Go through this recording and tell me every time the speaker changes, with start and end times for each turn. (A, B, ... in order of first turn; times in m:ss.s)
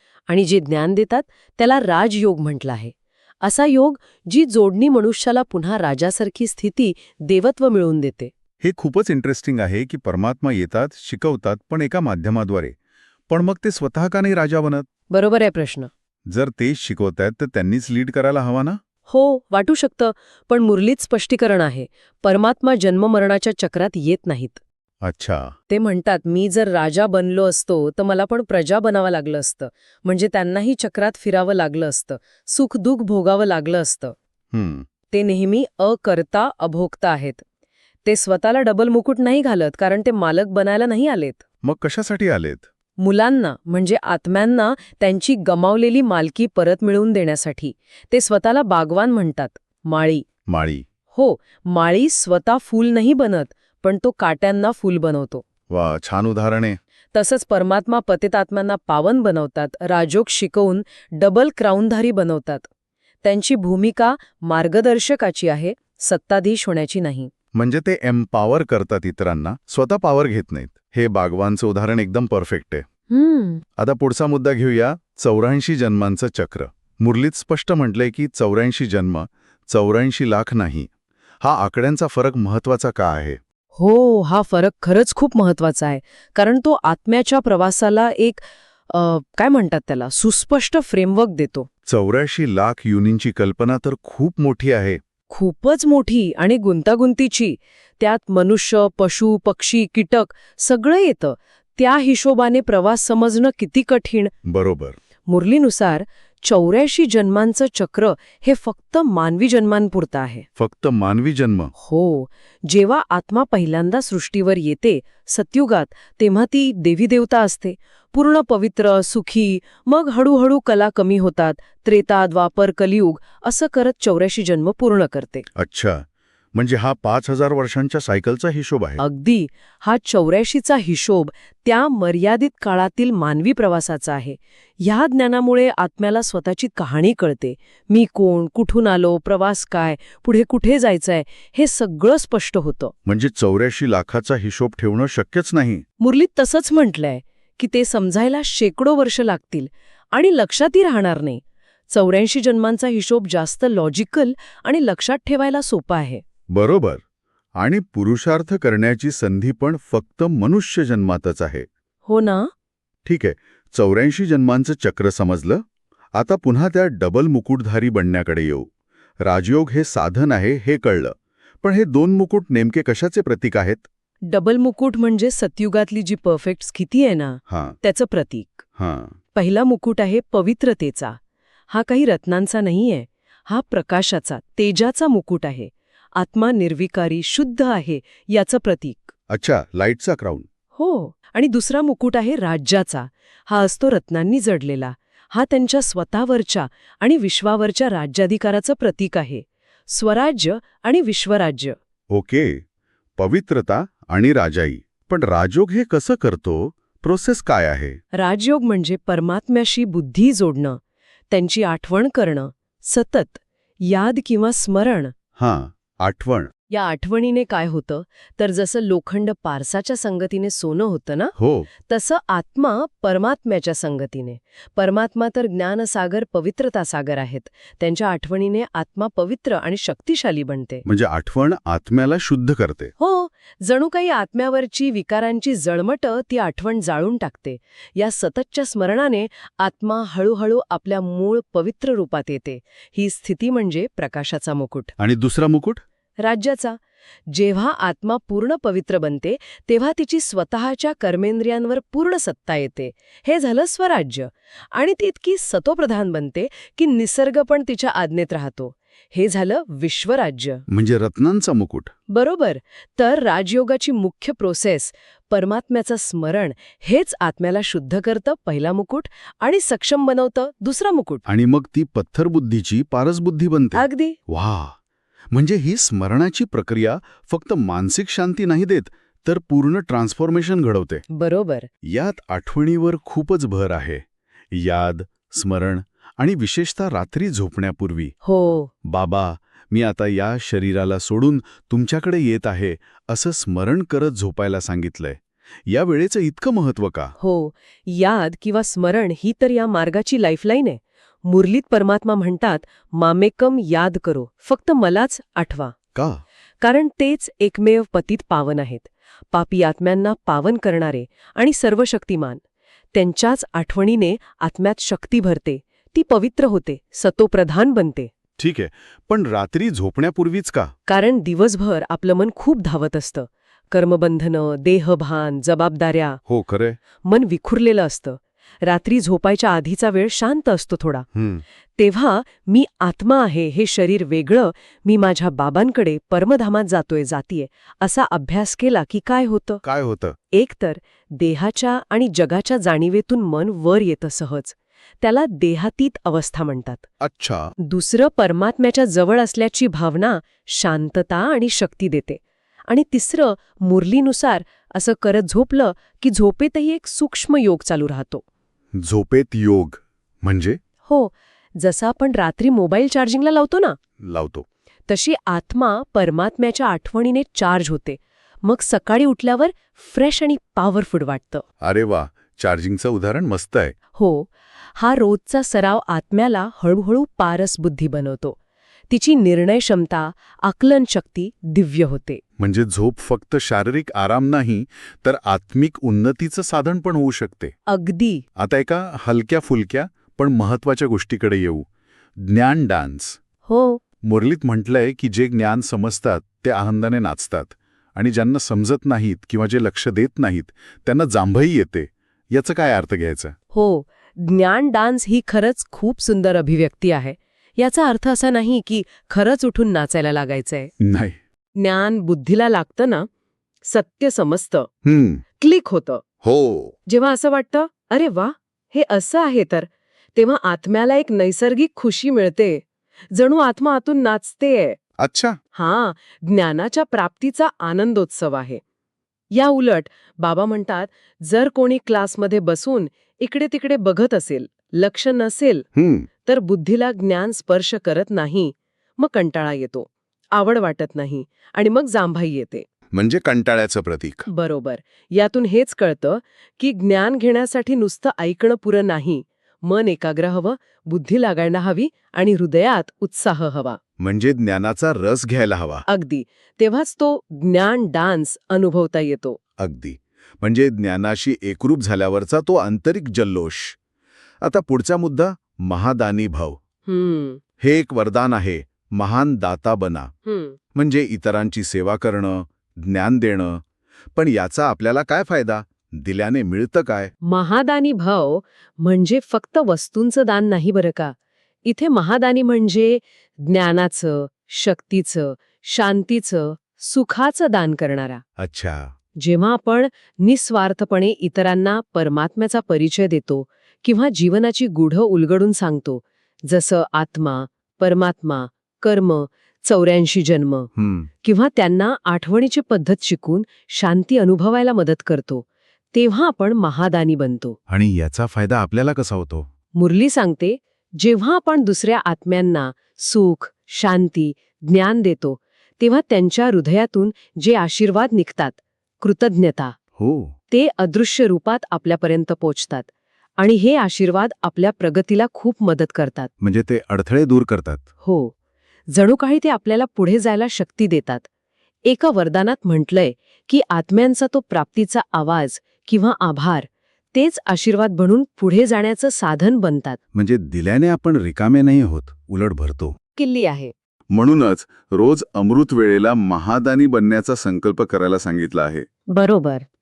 0:00.3-0:08.3 A
0:08.6-0:12.8 B
0:13.3-0:14.9 B
0:15.1-0:15.9 A
0:16.3-0:18.8 B
0:19.1-0:24.6 A
0:25.0-0:25.5 B
0:25.7-0:34.2 A
0:34.5-0:34.8 B
0:35.1-0:37.4 A
0:38.0-0:41.4 A
0:41.6-0:42.7 B
0:43.0-0:50.3 A
0:50.5-0:50.8 B
0:51.1-0:55.5 A
0:55.7-0:56.8 B
0:57.1-1:02.7 A
1:03.2-1:07.3 A
1:07.5-1:12.8 B
1:13.1-1:13.6 A
1:13.8-1:20.9 B
1:21.4-1:23.4 B
1:23.8-1:31.7 A
1:31.9-1:35.0 B
1:35.3-1:44.3 A
1:44.4-1:45.0 B
1:45.3-1:50.5 A
1:50.6-1:51.7 B
1:51.8-2:05.5 A
2:05.6-2:09.0 B
2:09.0-2:22.9 A
2:23.1-2:25.8 B
2:26.0-2:36.2 A
2:36.5-2:37.0 B
2:37.6-2:41.7 B
2:42.1-2:42.5 A
2:43.0-2:45.6 B
2:46.2-2:48.7 B
2:49.2-2:53.9 B
2:54.2-2:58.6 A
2:57.5-2:57.8 B
2:58.8-2:59.2 B
2:59.4-3:01.2 A
3:01.7-3:09.1 A
3:09.3-3:10.5 B
3:10.8-3:21.8 A
3:22.1-3:22.6 B
3:23.2-3:28.0 B
3:28.1-3:30.8 A
3:31.3-3:35.1 A
3:35.4-3:36.5 B
3:36.7-3:41.4 A
3:41.4-3:41.7 B
3:41.9-3:50.8 A
3:50.8-3:52.9 B
3:53.0-4:04.9 A
4:05.0-4:05.8 B
4:06.2-4:20.6 A
4:20.7-4:21.9 B
4:22.1-4:31.2 A
4:31.3-4:34.8 B
4:33.7-4:34.2 A
4:35.3-4:41.0 B
4:41.1-4:41.7 A
4:41.8-4:48.2 B
4:48.2-4:48.7 A
4:48.8-4:57.1 B
4:57.2-5:05.7 A
5:06.0-5:06.2 B
5:06.6-5:12.4 A
5:12.9-5:18.1 A
5:18.4-5:20.7 B
5:20.9-5:26.2 A
5:26.3-5:26.8 B
5:27.0-5:31.1 A
5:31.1-5:31.4 B
5:31.8-5:39.6 A
5:39.6-5:40.2 B
5:40.3-5:46.8 A
5:47.0-5:47.5 B
5:47.6-5:58.2 A
5:58.8-6:00.6 B
6:00.9-6:03.8 A
6:04.0-6:04.5 B
6:04.9-6:11.4 A
6:11.6-6:13.7 B
6:14.0-6:18.4 A
6:18.9-6:22.2 A
6:22.4-6:27.5 B
6:27.7-6:28.2 A
6:28.4-6:31.7 B
6:32.2-6:33.2 B
6:33.5-6:33.8 A
6:34.0-6:43.4 B
6:43.5-6:50.7 A
6:50.8-6:51.2 B
6:51.6-6:53.1 A
6:53.7-6:54.7 A
6:54.8-6:55.2 B
6:55.4-6:56.0 A
6:56.2-6:56.8 B
6:56.9-7:04.8 A
7:05.0-7:05.4 B
7:05.6-7:08.6 A
7:09.3-7:15.7 A
7:15.8-7:16.1 B
7:16.3-7:22.7 A
7:22.9-7:24.3 B
7:24.3-7:33.8 A
7:34.0-7:35.8 B
7:35.9-7:39.4 A
7:39.6-7:43.8 B
7:44.4-7:46.6 B
7:46.9-7:47.4 A
7:47.6-7:50.1 B
7:50.3-7:50.6 A
7:50.7-7:53.6 B
7:54.2-7:57.1 B
7:57.2-8:08.2 A
8:08.4-8:08.9 B
8:09.2-8:20.7 A
8:20.8-8:21.1 B
8:21.2-8:27.6 A
8:27.7-8:29.5 B
8:29.8-8:39.8 A
8:40.0-8:40.3 B
8:40.5-8:42.9 A
8:43.4-8:46.3 A
8:46.4-8:47.8 B
8:48.0-8:48.3 A
8:48.9-8:51.3 A
8:51.9-9:00.0 A
9:00.1-9:03.0 B
9:03.2-9:03.7 A
9:04.1-9:08.9 B
9:09.1-9:09.6 A